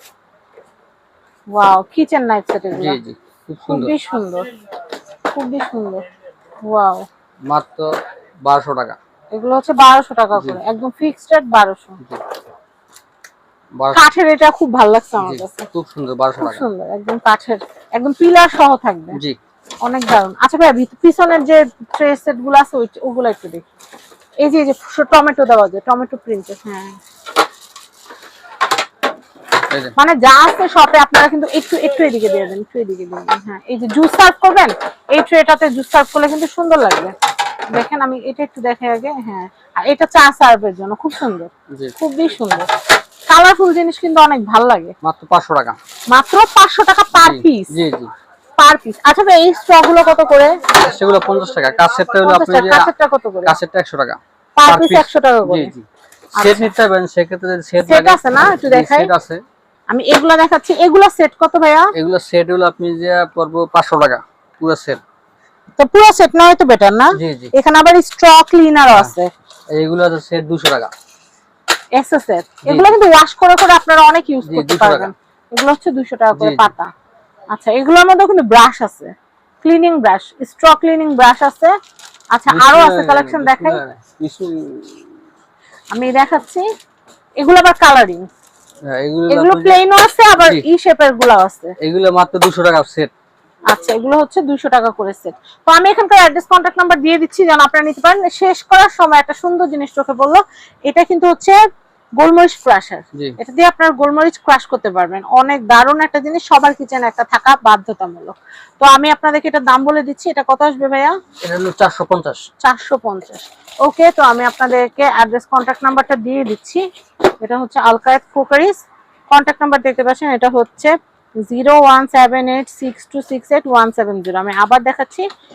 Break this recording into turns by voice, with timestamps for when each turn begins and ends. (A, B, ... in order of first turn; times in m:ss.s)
0:01.5-0:03.0 A
0:02.8-0:03.9 B
0:03.7-0:04.5 A
0:05.3-0:06.0 A
0:06.6-0:07.0 A
0:07.5-0:07.9 B
0:08.4-0:09.0 B
0:09.3-0:12.0 A
0:13.8-0:14.0 B
0:13.9-0:15.7 A
0:15.2-0:16.6 B
0:16.4-0:19.2 A
0:19.8-0:23.6 A
0:24.4-0:27.0 A
0:29.7-0:29.9 B
0:30.0-0:37.1 A
0:37.7-0:42.7 A
0:43.3-0:44.9 A
0:45.0-0:45.8 B
0:46.1-0:47.7 A
0:47.1-0:48.1 B
0:48.6-0:50.6 A
0:50.7-0:52.9 B
0:52.2-0:53.6 A
0:53.4-0:55.8 B
0:54.6-0:55.7 A
0:56.4-0:59.4 B
0:56.4-0:56.7 A
0:57.8-0:59.1 A
0:59.9-1:01.9 A
1:01.9-1:05.0 B
1:05.8-1:09.3 A
1:07.1-1:07.5 B
1:09.7-1:10.9 B
1:11.9-1:16.9 A
1:12.6-1:13.0 B
1:14.4-1:15.1 B
1:16.3-1:16.7 B
1:17.5-1:21.7 A
1:22.3-1:23.8 A
1:22.5-1:25.0 B
1:25.9-1:26.6 A
1:27.4-1:28.3 A
1:28.8-1:29.8 B
1:29.3-1:31.7 A
1:30.4-1:30.6 B
1:31.8-1:33.1 B
1:33.7-1:41.6 A
1:42.2-1:51.1 A
1:51.4-1:52.4 B
1:52.6-1:56.8 A
1:57.4-1:58.8 A
1:59.3-2:00.9 A
2:01.4-2:05.3 A